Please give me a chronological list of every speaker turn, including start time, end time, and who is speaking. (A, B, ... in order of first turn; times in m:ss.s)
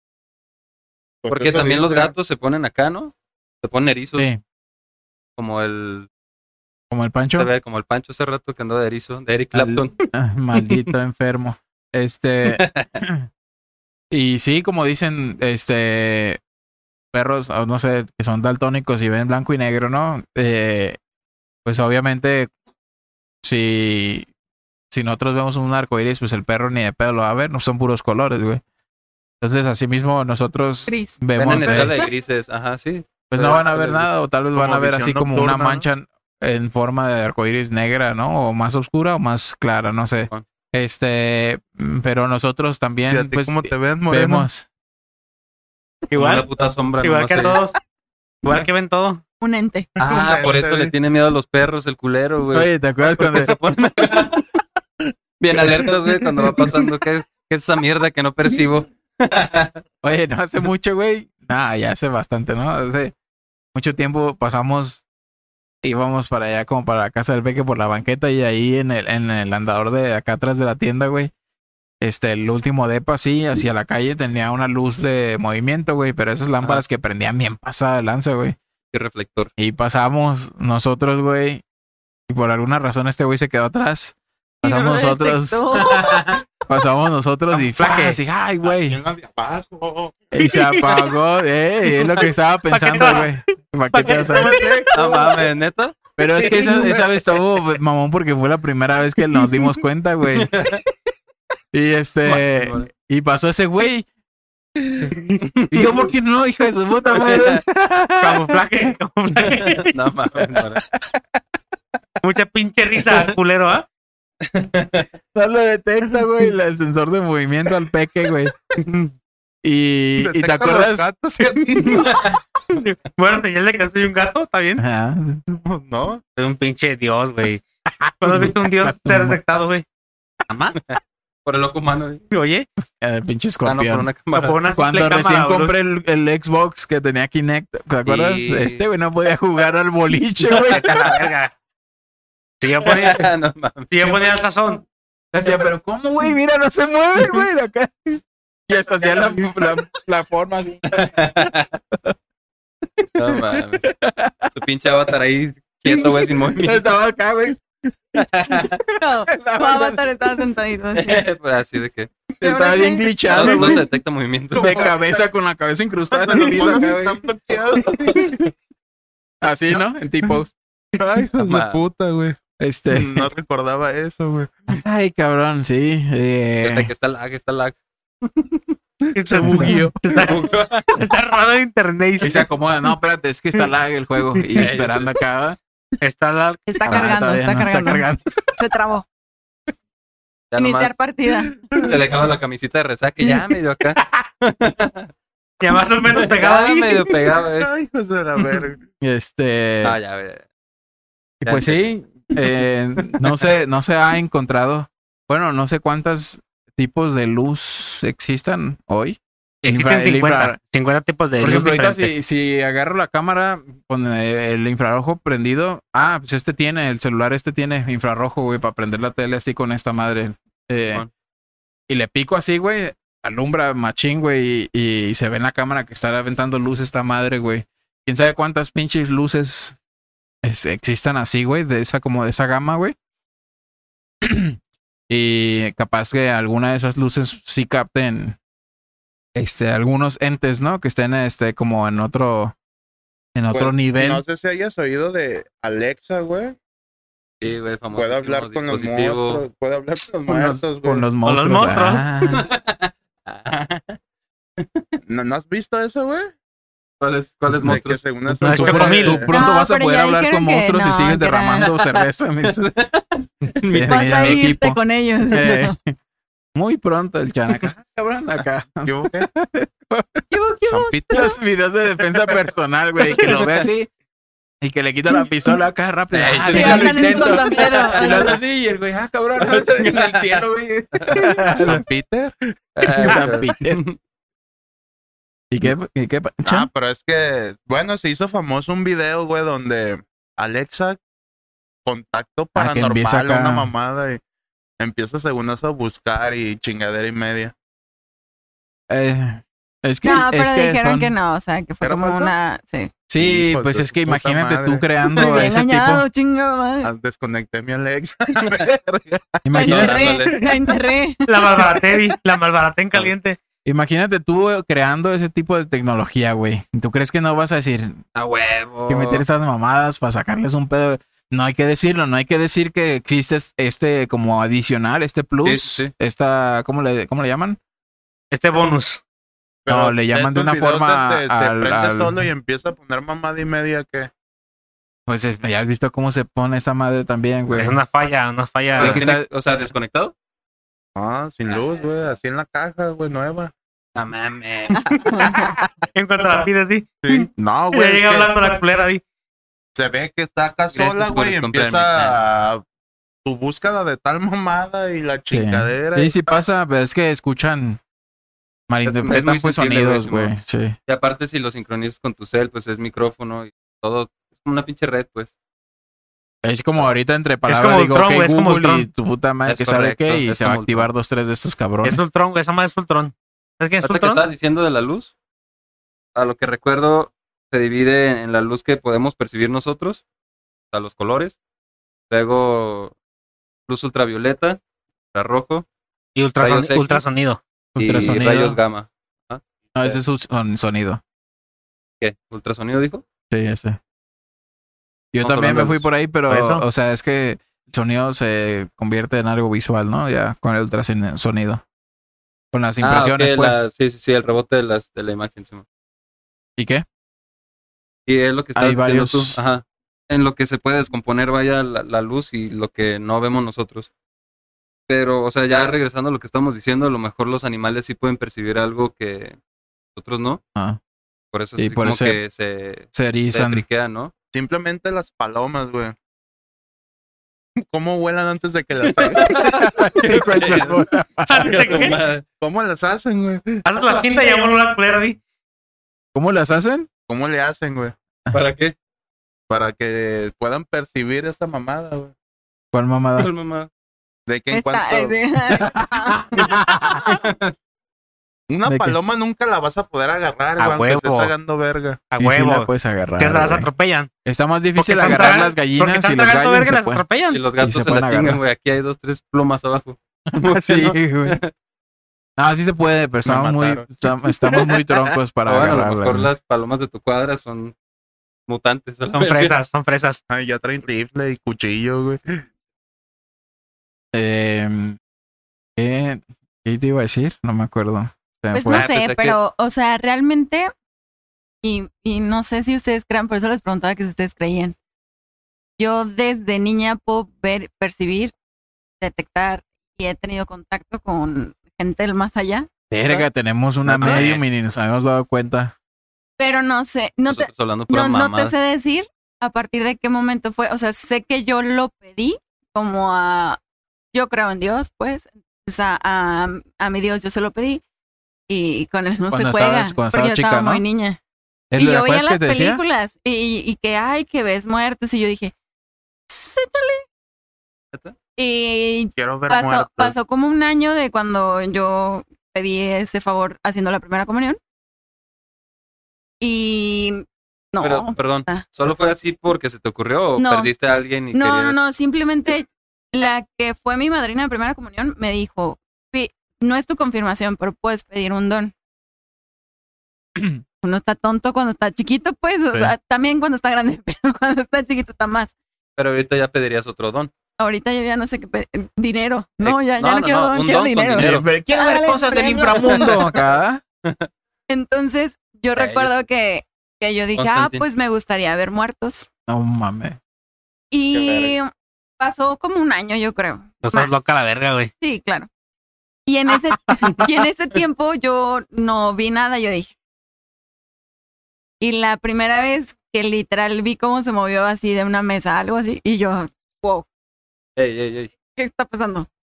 0:01.2-0:02.1 A
0:01.3-0:04.3 B
0:05.4-0:06.1 B
0:06.9-0:07.5 C
0:07.4-0:10.8 B
0:09.5-0:13.3 C
0:12.5-0:12.9 B
0:14.1-0:16.4 C
0:17.1-0:21.0 C
0:21.6-0:22.5 C
0:23.4-0:24.3 C
0:24.9-0:28.6 C
0:29.4-0:32.0 C
0:30.9-0:32.1 D
0:31.4-0:34.1 B
0:33.3-0:44.7 C
0:34.6-0:35.9 A
0:43.1-0:44.5 A
0:46.1-0:46.5 E
0:46.1-0:47.6 B
0:47.0-0:47.8 E
0:48.4-0:49.2 E
0:49.4-0:49.9 D
0:50.0-0:50.9 A
0:50.0-0:54.4 B
0:52.5-0:53.5 C
0:55.4-0:59.8 B
1:00.0-1:03.1 C
1:03.8-1:05.0 C
1:05.8-1:11.3 C
1:12.0-1:18.6 C
1:18.9-1:19.5 B
1:19.6-1:21.6 C
1:22.3-1:25.6 C
1:24.6-1:26.4 D
1:25.8-1:26.4 B
1:26.7-1:29.0 C
1:28.8-1:30.3 A
1:30.3-1:34.6 C
1:30.4-1:30.9 E
1:32.7-1:33.4 E
1:33.9-1:34.9 E
1:34.2-1:35.3 A
1:34.9-1:36.0 B
1:36.2-1:40.5 C
1:36.4-1:37.0 A
1:40.4-1:40.8 B
1:41.7-1:44.1 C
1:42.2-1:42.9 B
1:45.5-1:46.0 B
1:45.7-1:48.6 C
1:47.1-1:47.6 B
1:48.2-1:49.9 E
1:49.7-1:50.8 B
1:50.4-1:51.2 C
1:52.2-1:53.8 E
1:54.4-1:55.1 B
1:55.4-1:58.6 C
1:59.6-2:01.1 C
2:00.2-2:02.1 A
2:02.7-2:04.8 E
2:04.8-2:05.4 C
2:05.5-2:06.2 A
2:06.4-2:07.7 E
2:08.2-2:09.8 E
2:08.2-2:09.4 C
2:10.5-2:10.8 E
2:10.9-2:12.2 B
2:12.3-2:12.7 E
2:13.0-2:14.1 C
2:13.6-2:14.6 B
2:14.3-2:15.8 E
2:14.8-2:21.1 C
2:18.0-2:18.8 B
2:20.7-2:21.5 E
2:20.8-2:21.2 B
2:22.6-2:23.3 E
2:22.8-2:23.9 B
2:23.9-2:24.8 E
2:25.3-2:30.9 C
2:30.9-2:31.8 B
2:33.0-2:34.5 C
2:33.2-2:33.9 B
2:34.5-2:36.8 B
2:35.9-2:38.8 C
2:38.2-2:38.8 B
2:39.0-2:41.2 D
2:39.3-2:40.0 C
2:40.9-2:42.1 B
2:42.4-2:43.8 C
2:42.4-2:43.7 D
2:43.3-2:44.9 B
2:44.5-2:45.2 A
2:44.6-2:47.2 C
2:46.1-2:48.4 A
2:49.4-2:50.5 C
2:51.0-2:52.4 A
2:51.4-2:51.8 B
2:52.6-2:53.3 C
2:52.9-2:54.8 A
2:54.7-2:56.9 C
2:56.6-2:58.6 B
2:59.1-3:00.3 A
2:59.1-3:02.5 E
3:00.3-3:00.9 B
3:02.2-3:05.6 C
3:04.4-3:04.7 E
3:04.6-3:05.1 B
3:06.0-3:06.6 E
3:06.7-3:09.0 D
3:06.8-3:08.3 C
3:10.5-3:11.0 B
3:10.6-3:11.5 D
3:11.7-3:12.0 A
3:11.8-3:15.1 B
3:15.6-3:17.1 E
3:16.1-3:17.7 B
3:17.6-3:18.8 A
3:19.0-3:20.0 C
3:19.8-3:20.4 B
3:21.4-3:30.6 C
3:21.4-3:21.8 B
3:29.6-3:32.1 E
3:31.4-3:41.1 C
3:41.9-3:49.8 C
3:50.4-3:53.0 C
3:54.2-3:54.6 C
3:55.1-3:58.4 C
3:59.4-4:02.5 C
4:03.4-4:04.2 C
4:03.5-4:06.6 A
4:07.4-4:09.4 B
4:07.9-4:11.1 A
4:10.3-4:12.5 C
4:11.2-4:12.1 E
4:12.3-4:14.0 B
4:14.6-4:14.8 B
4:15.0-4:16.3 A
4:17.0-4:18.0 B
4:17.6-4:19.3 A
4:18.4-4:19.2 E
4:18.4-4:22.7 C
4:19.3-4:21.7 D
4:21.6-4:24.4 B
4:23.7-4:24.8 C
4:23.9-4:25.8 D
4:25.3-4:26.0 C
4:26.6-4:30.2 C
4:28.8-4:29.3 A
4:30.3-4:31.4 D
4:30.6-4:31.3 A
4:31.1-4:33.9 C
4:33.3-4:33.6 B
4:34.6-4:41.8 C
4:36.1-4:38.2 B
4:36.5-4:38.4 D
4:39.5-4:40.4 B
4:41.0-4:41.3 B
4:41.2-4:42.4 A
4:42.8-4:44.0 B
4:43.0-4:43.8 C
4:45.5-4:46.7 C
4:46.4-4:51.0 A
4:51.8-4:54.2 A
4:52.6-4:53.7 C
4:54.8-4:57.5 A
4:58.9-5:01.1 C
5:00.0-5:02.9 D
5:01.8-5:02.3 A
5:03.1-5:06.1 C
5:03.2-5:04.9 A
5:05.1-5:06.9 D
5:06.8-5:09.4 A
5:09.4-5:10.2 C
5:09.5-5:11.4 D
5:09.6-5:10.4 B
5:11.3-5:13.4 E
5:13.6-5:18.0 C
5:18.2-5:19.2 B
5:18.9-5:27.6 C
5:25.4-5:25.9 B
5:28.3-5:29.0 E
5:29.6-5:34.1 A
5:29.7-5:32.2 C
5:35.1-5:37.8 C
5:37.6-5:39.0 E
5:38.8-5:40.1 B
5:38.8-5:39.3 C
5:41.0-5:43.5 A
5:41.5-5:42.2 B
5:44.0-5:44.9 B
5:44.7-5:45.6 D
5:45.4-5:47.0 E
5:47.0-5:48.3 A
5:47.7-5:49.0 E
5:49.8-5:52.6 A
5:50.7-5:52.2 B
5:53.2-5:56.2 A
5:55.3-5:57.8 C
5:58.7-6:00.8 C
5:58.8-6:00.3 B
6:00.9-6:05.3 B
6:06.4-6:12.0 C
6:07.5-6:08.9 E
6:09.5-6:10.9 B
6:11.8-6:14.2 E
6:13.8-6:15.1 B
6:16.2-6:20.0 B
6:20.7-6:21.4 B
6:22.1-6:22.9 B
6:23.7-6:24.6 B
6:25.1-6:25.6 B
6:26.2-6:27.4 E
6:26.4-6:27.1 B
6:27.8-6:28.6 C
6:27.8-6:30.0 B
6:29.8-6:31.0 C
6:32.0-6:33.0 B
6:33.3-6:33.8 C
6:35.1-6:41.6 C
6:35.2-6:35.9 B
6:36.3-6:36.6 E
6:42.5-6:43.6 C
6:42.8-6:45.6 B
6:46.6-6:46.8 C
6:48.1-6:53.9 B
6:48.6-6:49.4 C
6:54.9-6:59.4 B
7:00.0-7:00.4 B
7:01.3-7:04.1 B
7:01.6-7:02.2 C
7:02.9-7:03.6 C
7:04.3-7:06.0 A
7:07.6-7:09.5 A
7:08.9-7:12.2 B
7:09.3-7:11.6 C
7:11.3-7:12.0 E
7:12.4-7:14.3 A
7:13.6-7:15.2 E
7:16.1-7:16.9 C
7:17.1-7:18.0 A
7:18.3-7:18.8 B
7:19.5-7:22.1 A
7:22.7-7:23.3 C
7:23.2-7:23.7 B
7:24.3-7:25.2 A
7:24.5-7:26.2 D
7:25.6-7:27.0 C
7:27.0-7:27.5 B
7:28.5-7:32.0 A
7:28.7-7:29.0 C
7:30.6-7:31.3 E
7:32.1-7:34.1 E
7:32.2-7:33.7 C
7:34.2-7:37.0 C
7:34.8-7:37.4 E
7:37.3-7:41.5 B
7:37.6-7:38.4 C
7:40.3-7:41.4 C
7:42.4-7:46.3 C
7:43.2-7:43.9 A
7:45.5-7:47.8 B
7:48.5-7:49.6 B
7:49.2-7:50.2 E
7:50.3-7:52.4 A
7:54.1-7:55.0 C
7:55.8-7:58.9 C
7:58.5-8:00.7 D
7:58.7-7:59.4 B
8:01.6-8:04.8 D
8:05.8-8:08.3 D
8:09.0-8:12.7 D
8:12.9-8:15.7 C
8:13.8-8:14.4 B
8:16.4-8:23.6 D
8:17.3-8:18.6 B
8:24.1-8:27.8 D
8:28.5-8:31.2 D
8:29.3-8:30.8 C
8:31.7-8:32.8 C
8:31.8-8:35.5 D
8:36.3-8:37.0 D
8:38.4-8:44.6 D
8:39.2-8:40.2 A
8:46.4-8:48.6 D
8:47.8-8:51.8 B
8:50.4-8:50.7 D
8:51.3-8:58.7 D
9:00.4-9:00.6 C
9:00.8-9:05.5 D
9:06.0-9:07.3 B
9:07.6-9:13.2 D
9:09.6-9:11.5 B
9:11.2-9:13.8 C
9:12.9-9:13.4 B
9:14.0-9:14.3 B
9:14.7-9:19.3 D
9:15.8-9:16.2 B
9:17.4-9:17.8 B
9:19.5-9:20.2 C
9:20.9-9:24.2 D
9:21.1-9:21.5 A
9:23.8-9:24.9 E
9:25.0-9:25.5 D
9:26.3-9:29.9 D
9:31.8-9:37.1 D
9:37.8-9:38.3 B
9:38.6-9:39.3 D